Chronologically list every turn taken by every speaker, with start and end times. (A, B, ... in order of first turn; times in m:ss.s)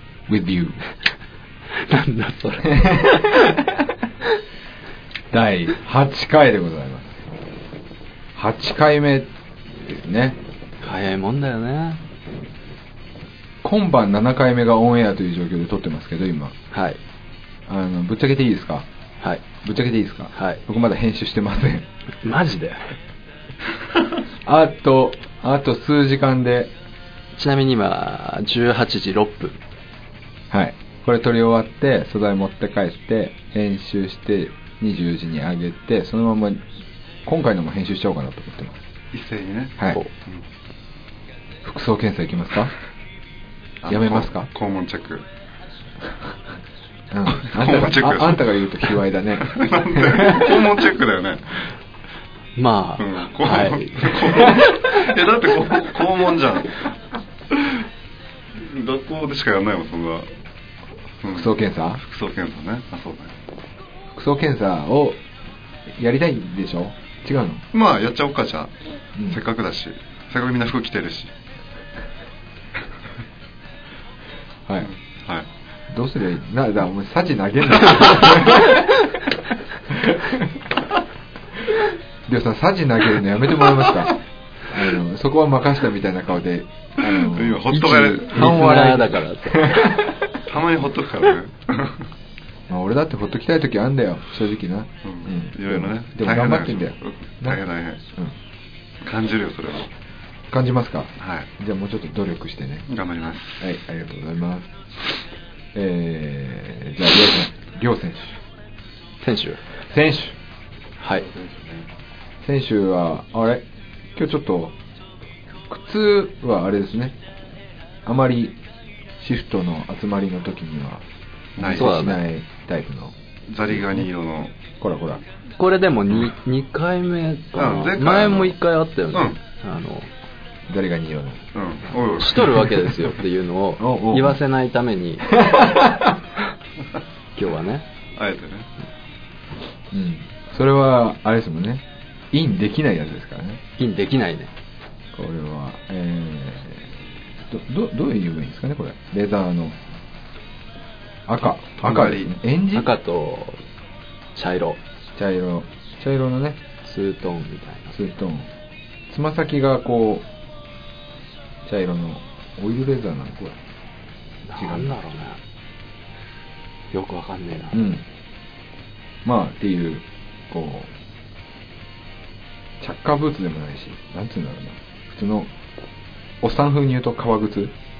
0:00.3-0:00.8 A
0:01.7-0:03.5 B
0:02.6-0:03.9 A
0:05.3-0:07.2 A
0:08.4-0:10.4 A
0:10.8-0:12.0 B
0:13.6-0:16.6 A
0:16.7-0:17.0 B
0:17.7-0:18.9 A
0:19.6-0:21.9 A
0:20.3-0:20.6 B
0:22.2-0:22.9 B
0:24.4-0:26.7 A
0:27.3-0:29.6 B
0:30.5-0:36.7 A
0:37.2-0:38.8 A
0:39.1-0:40.4 C
0:41.6-0:42.7 A
0:43.8-0:45.2 C
0:43.9-0:44.5 A
0:47.1-0:50.6 A
0:47.3-0:48.7 C
0:49.4-0:51.7 C
0:52.6-0:55.1 B
0:53.0-0:56.9 C
0:57.5-0:57.8 C
0:58.6-1:00.3 C
1:01.2-1:03.3 C
1:01.3-1:02.0 A
1:04.1-1:05.2 A
1:05.9-1:07.6 A
1:07.7-1:08.7 C
1:09.2-1:11.3 C
1:14.8-1:15.5 C
1:15.9-1:19.1 A
1:17.8-1:18.4 C
1:19.9-1:20.5 A
1:22.3-1:27.7 A
1:27.1-1:28.7 C
1:27.7-1:30.1 B
1:28.2-1:30.2 A
1:30.4-1:32.1 C
1:32.7-1:37.6 A
1:35.0-1:38.0 C
1:39.0-1:39.9 C
1:40.5-1:42.8 A
1:41.2-1:41.5 C
1:42.9-1:43.7 C
1:43.6-1:44.7 A
1:45.7-1:48.4 A
1:49.2-1:49.6 B
1:49.9-1:50.4 A
1:51.0-1:51.3 B
1:51.2-1:51.9 C
1:52.4-1:54.8 A
1:55.7-1:57.2 A
1:58.0-1:58.6 A
1:59.2-2:01.0 A
2:01.6-2:03.2 A
2:01.6-2:02.0 C
2:01.6-2:02.2 B
2:03.5-2:04.5 C
2:03.7-2:04.1 A
2:04.8-2:05.2 A
2:05.6-2:10.1 B
2:07.6-2:08.6 C
2:09.1-2:09.4 C
2:10.7-2:11.4 A
2:11.5-2:13.0 C
2:12.2-2:15.4 B
2:13.8-2:14.4 A
2:15.3-2:16.2 A
2:17.4-2:17.8 B
2:18.2-2:18.7 C
2:19.9-2:23.6 A
2:23.8-2:24.5 B
2:25.1-2:29.8 A
2:31.3-2:32.9 A
2:31.8-2:32.4 C
2:32.7-2:33.6 B
2:34.3-2:34.8 B
2:35.2-2:36.6 A
2:36.8-2:37.9 B
2:37.9-2:38.5 A
2:39.1-2:40.3 A
2:41.6-2:43.6 A
2:44.4-2:45.4 B
2:44.6-2:45.0 A
2:46.9-2:47.8 B
2:47.7-2:48.0 A
2:49.2-2:50.9 A
2:52.8-2:55.5 A
2:56.4-2:57.7 A